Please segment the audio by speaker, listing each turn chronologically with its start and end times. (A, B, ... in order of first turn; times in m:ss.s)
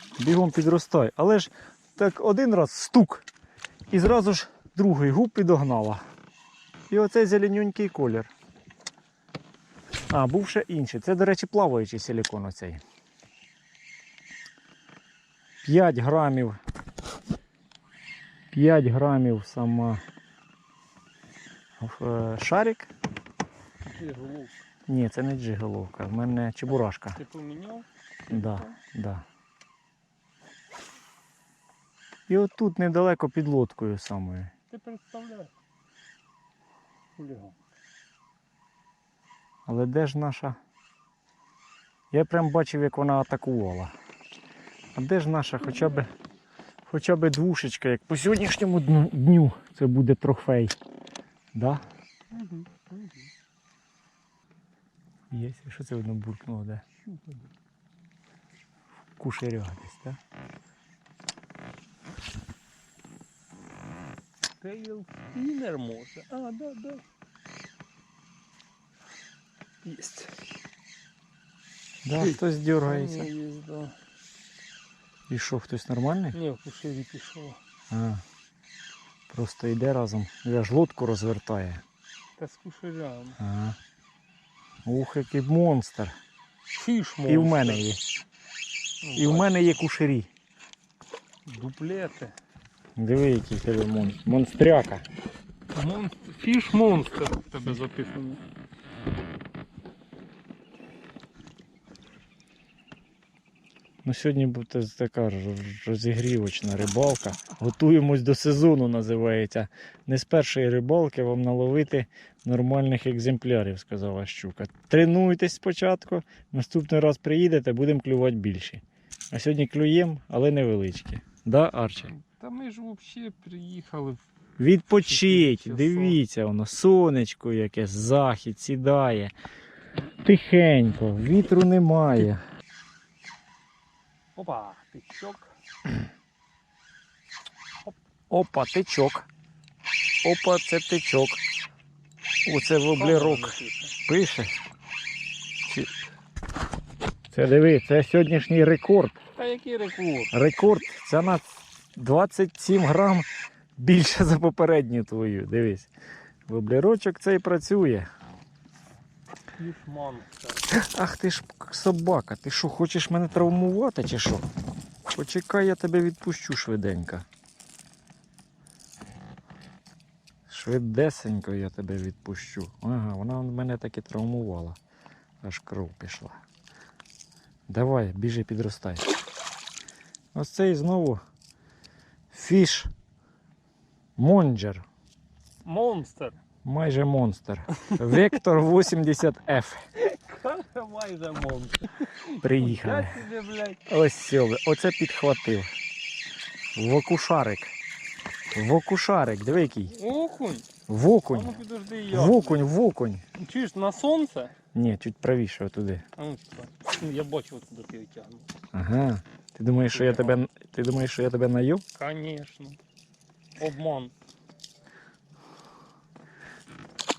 0:00.2-0:03.2 A
0:03.9-0:06.0 A
0:06.9-0:08.3 A
0:10.1-0:12.8 A
0:15.6-0:16.6 A
0:18.5-0:20.0 A
0:21.8-0:22.9 A
0:23.8-0:24.6 B
0:24.9-0:27.2 A
0:27.1-0:28.8 B
0:28.3-0:29.2 A
0:32.3-0:34.5 A
0:34.7-0:35.5 B
0:37.2-0:37.6 B
0:39.6-0:40.6 A
0:42.1-0:43.9 A
0:44.9-0:46.1 A
0:46.9-0:50.8 A
0:51.5-0:51.8 A
0:52.3-0:53.3 B
0:55.3-0:56.8 A
0:57.0-0:57.5 B
0:59.2-1:00.2 A
1:04.6-1:07.0 B
1:09.8-1:10.3 B
1:12.0-1:13.3 A
1:12.1-1:14.0 B
1:15.3-1:16.4 A
1:16.3-1:17.6 B
1:17.9-1:18.2 A
1:19.3-1:21.8 A
1:22.4-1:23.4 B
1:23.4-1:23.8 A
1:24.8-1:26.2 A
1:26.7-1:27.8 B
1:27.3-1:28.0 A
1:29.0-1:29.6 B
1:29.2-1:30.3 A
1:31.4-1:32.3 B
1:33.0-1:35.0 A
1:35.7-1:38.4 B
1:44.0-2:02.1 A
2:02.1-2:04.2 B
2:04.6-2:09.3 A
2:05.0-2:06.2 B
2:10.2-2:12.4 A
2:14.4-2:15.5 B
2:18.3-2:19.3 A
2:20.2-2:21.4 A
2:22.4-2:24.5 A
2:22.9-2:23.9 B
2:25.6-2:25.9 A
2:27.3-2:29.2 A
2:29.4-2:30.3 B
2:30.3-2:35.9 A
2:36.5-2:38.1 A
2:39.6-2:40.6 B
2:40.7-2:44.5 A
2:45.1-2:47.2 A
2:50.5-2:54.8 A
2:55.4-2:56.4 A
2:57.7-2:59.1 A
3:00.3-3:01.2 A
3:02.3-3:02.9 A
3:04.2-3:04.8 A
3:05.6-3:06.4 B
3:06.6-3:09.8 A
3:10.0-3:13.8 B
3:12.4-3:13.2 A
3:13.9-3:15.7 A
3:16.7-3:17.7 A
3:18.5-3:19.9 A
3:19.9-3:20.7 B
3:20.9-3:21.6 A
3:21.3-3:22.7 B
3:22.1-3:23.2 A
3:23.4-3:24.5 B
3:24.7-3:26.0 A
3:26.2-3:28.5 B
3:28.7-3:31.8 A
3:29.9-3:30.4 B
3:31.9-3:32.8 B
3:33.6-3:34.1 B